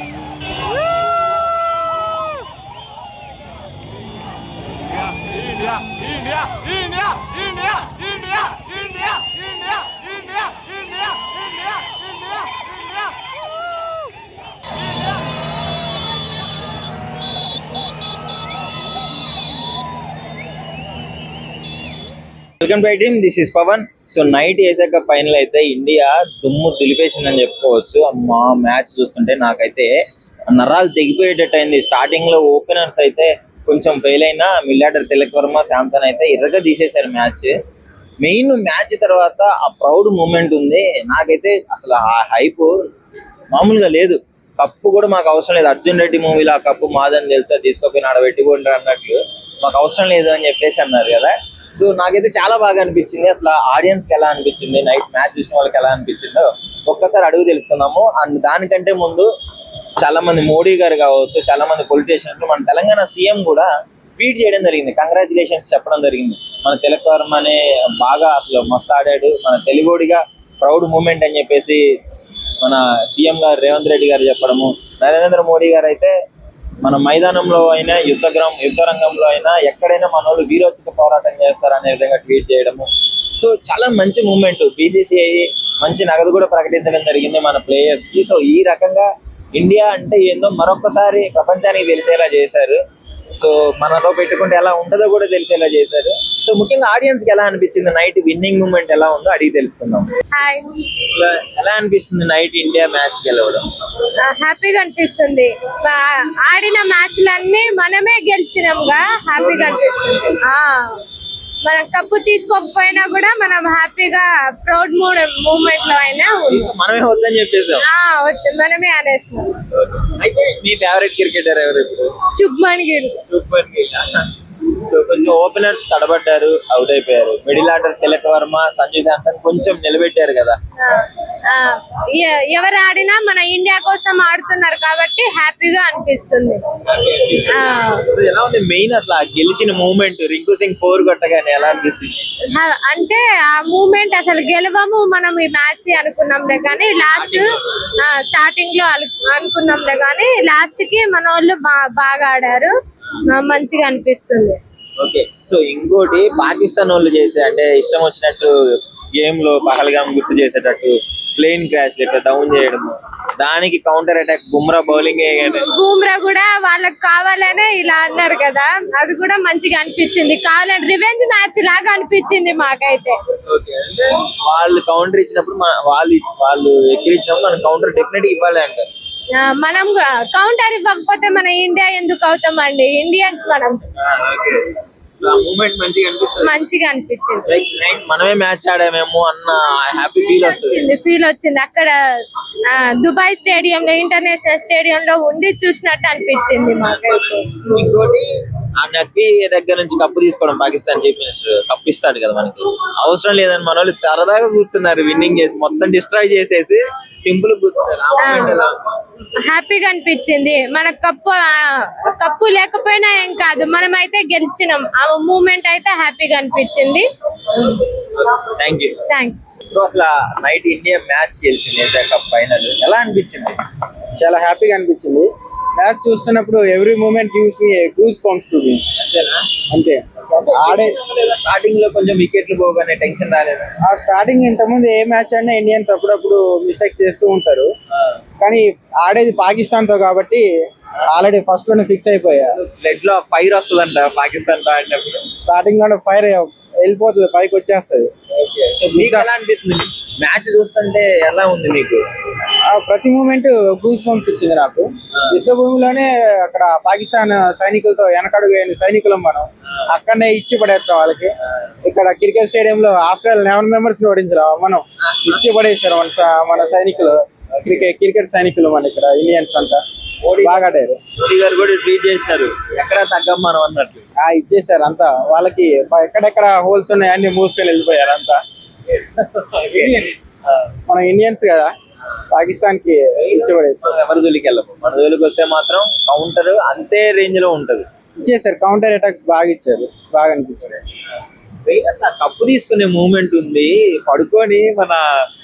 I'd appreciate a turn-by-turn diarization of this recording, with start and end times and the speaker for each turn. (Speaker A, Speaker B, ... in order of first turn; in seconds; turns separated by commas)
Speaker A: 22.6-29.9, Speaker A: 30.5-37.5, Speaker A: 38.2-42.7, Speaker A: 43.5-59.3, Speaker A: 60.0-71.8, Speaker A: 72.6-76.1, Speaker A: 76.8-82.9, Speaker A: 83.4-92.8, Speaker A: 93.4-100.1, Speaker A: 101.1-103.7, Speaker B: 104.3-111.0, Speaker A: 109.3-110.3, Speaker B: 111.6-116.7, Speaker A: 116.5-117.8, Speaker B: 117.8-119.6, Speaker A: 119.8-122.1, Speaker B: 122.3-123.2, Speaker A: 123.3-124.1, Speaker A: 124.9-130.6, Speaker B: 130.8-136.7, Speaker A: 136.8-137.6, Speaker B: 137.5-138.0, Speaker A: 138.1-142.2, Speaker B: 142.6-147.4, Speaker A: 147.1-147.4, Speaker B: 148.0-152.7, Speaker B: 153.3-154.6, Speaker A: 155.0-158.5, Speaker A: 159.2-165.7, Speaker B: 165.4-173.2, Speaker A: 173.5-178.9, Speaker B: 179.4-183.8, Speaker A: 184.0-184.7, Speaker A: 185.2-186.6, Speaker B: 186.4-187.5, Speaker A: 187.5-190.9, Speaker B: 190.0-191.9, Speaker B: 192.7-197.9, Speaker A: 197.7-198.3, Speaker A: 198.8-208.7, Speaker B: 208.2-208.6, Speaker B: 209.5-217.8, Speaker A: 218.3-219.0, Speaker B: 219.1-219.4, Speaker A: 219.7-223.6, Speaker C: 224.2-228.8, Speaker A: 229.0-229.5, Speaker C: 229.7-231.0, Speaker A: 230.3-233.7, Speaker C: 233.8-237.7, Speaker C: 238.4-240.4, Speaker C: 241.1-242.6, Speaker A: 242.6-245.2, Speaker C: 245.4-248.1, Speaker A: 248.4-252.0, Speaker C: 248.9-249.3, Speaker C: 252.7-261.3, Speaker C: 261.8-269.8, Speaker A: 265.0-265.4, Speaker A: 270.2-274.0, Speaker C: 270.4-271.0, Speaker C: 274.2-278.4, Speaker A: 279.0-280.1, Speaker C: 280.9-281.7, Speaker C: 282.3-283.9, Speaker A: 283.2-287.9, Speaker C: 288.2-290.8, Speaker A: 291.6-295.0